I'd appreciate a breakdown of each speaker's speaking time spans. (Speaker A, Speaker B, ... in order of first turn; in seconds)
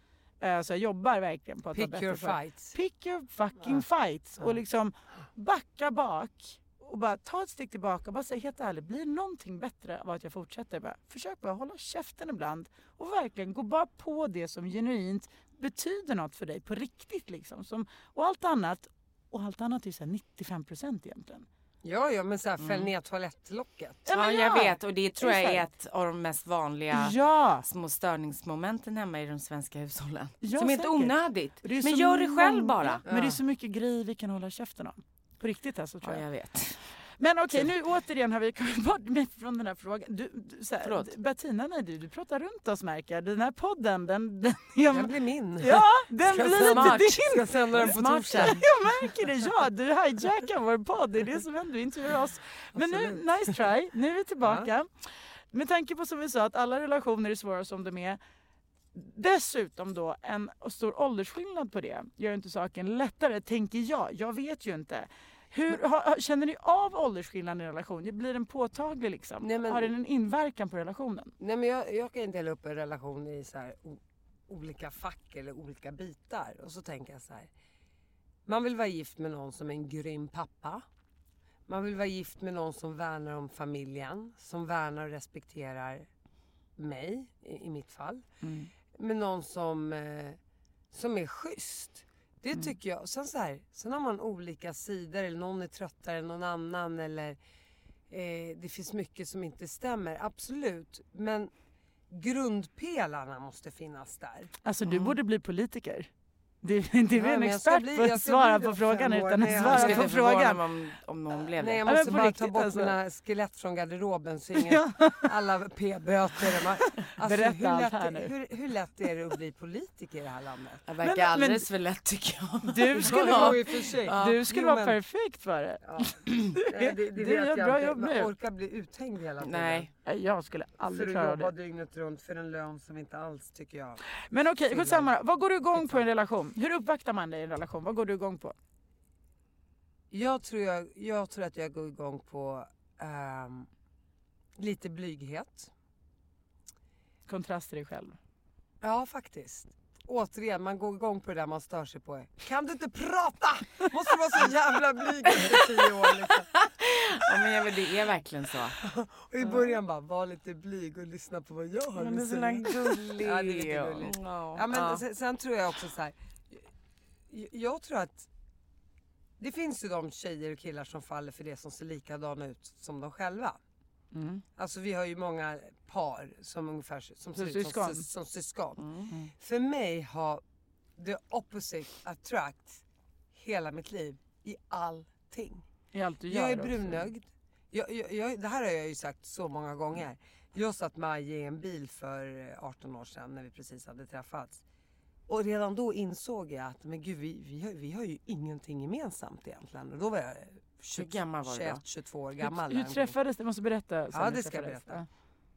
Speaker A: 0.4-21.5, 24.1-25.7, 26.9-27.7, 30.4-36.2, 37.2-54.9, 55.5-58.2, 58.9-71.3, 88.4-88.7, 104.7-106.1, 106.6-110.6, 111.9-113.0, 114.6-115.3, 117.1-118.3, 121.0-121.7, 122.6-128.3, 130.1-131.5, 134.3-138.6, 147.3-148.2, 174.1-174.4, 177.4-178.1, 185.9-187.1, 202.4-205.1
Speaker B: 1.7-2.8, 21.8-24.1, 33.1-33.4, 44.9-48.7, 52.8-53.2, 54.4-54.7, 69.4-69.9, 71.4-77.5, 78.5-80.8, 81.7-86.1, 86.8-88.3, 89.0-90.4, 90.9-97.4, 98.1-101.5, 102.1-104.5, 107.1-110.1, 111.5-120.8, 123.0-125.0, 125.8-129.9, 130.8-134.0, 134.7-135.1, 140.1-143.7, 144.6-145.7, 148.8-156.5, 158.8-166.7, 167.3-168.3, 169.4-173.6, 174.6-180.4, 181.0-182.8, 183.3-185.6, 186.3-194.6, 195.3-203.1, 204.1-205.0
Speaker C: 22.6-22.9, 24.1-33.0, 36.0-36.8, 40.8-41.1, 46.5-48.6, 104.9-105.2, 109.5-111.8, 120.9-124.4, 129.4-129.9, 155.3-158.8, 162.0-165.0, 178.8-179.1, 200.9-201.8